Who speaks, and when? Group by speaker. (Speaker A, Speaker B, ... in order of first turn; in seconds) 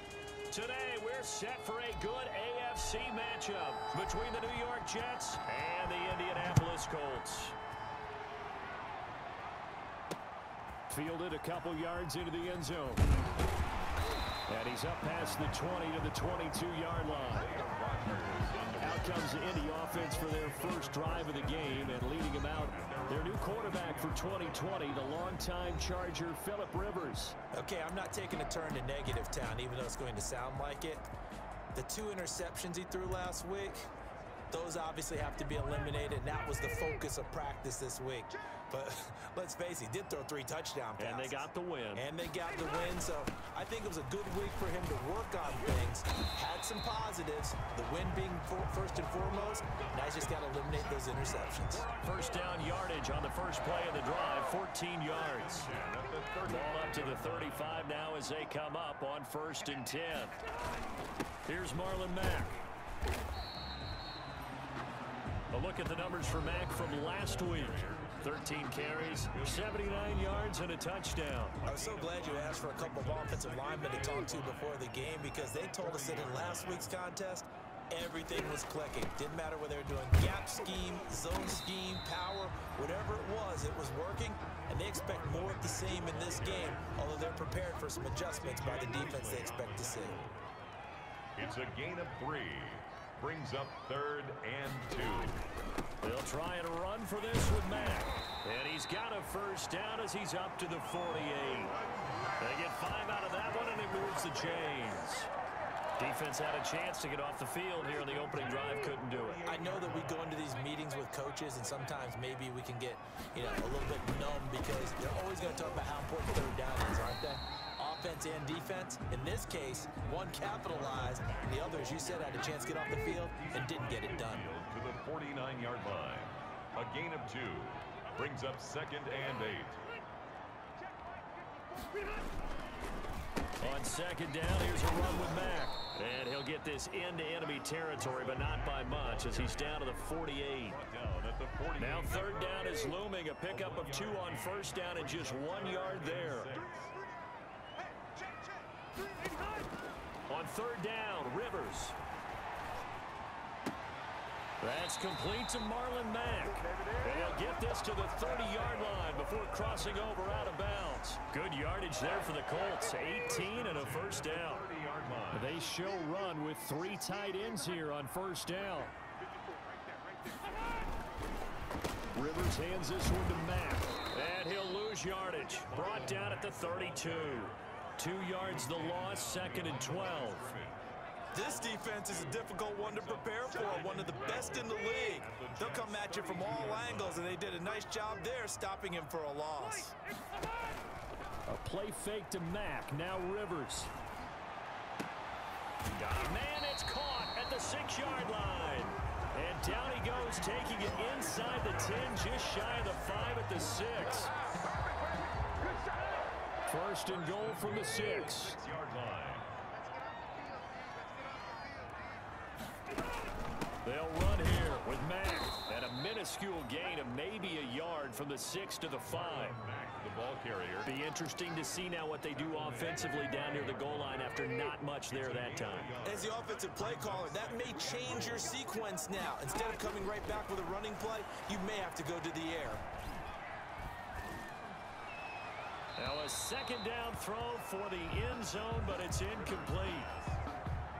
Speaker A: 0.5-7.5, 10.9-13.1, 14.5-17.6, 18.8-27.4, 41.0-42.1, 51.8-55.7, 56.5-60.4, 61.5-62.6, 65.5-71.6, 96.0-101.7, 102.4-105.3, 106.0-109.4, 133.6-140.8, 141.8-146.5, 150.3-151.9, 154.6-164.6, 165.3-168.9, 172.1-180.5, 191.5-193.9, 196.0-204.3, 206.7-208.6, 213.8-219.6, 220.8-225.9, 236.0-240.1
Speaker B: 17.1-25.2, 55.5-57.6, 67.1-68.1, 69.0-70.6, 71.6-76.9, 85.0-87.0, 88.4-90.4, 91.3-95.4, 109.0-110.3, 120.3-129.8, 138.2-139.9, 140.6-142.9, 143.4-146.9, 163.0-165.6, 175.7-177.5, 178.4-180.8, 182.6-187.3, 200.8-204.5, 207.0-209.5, 219.1-220.9, 222.3-224.2, 225.1-228.6, 239.0-240.4
Speaker C: 27.5-31.0, 31.7-33.9, 34.5-51.9, 71.6-90.2, 109.4-124.5, 181.3-189.9, 226.0-232.8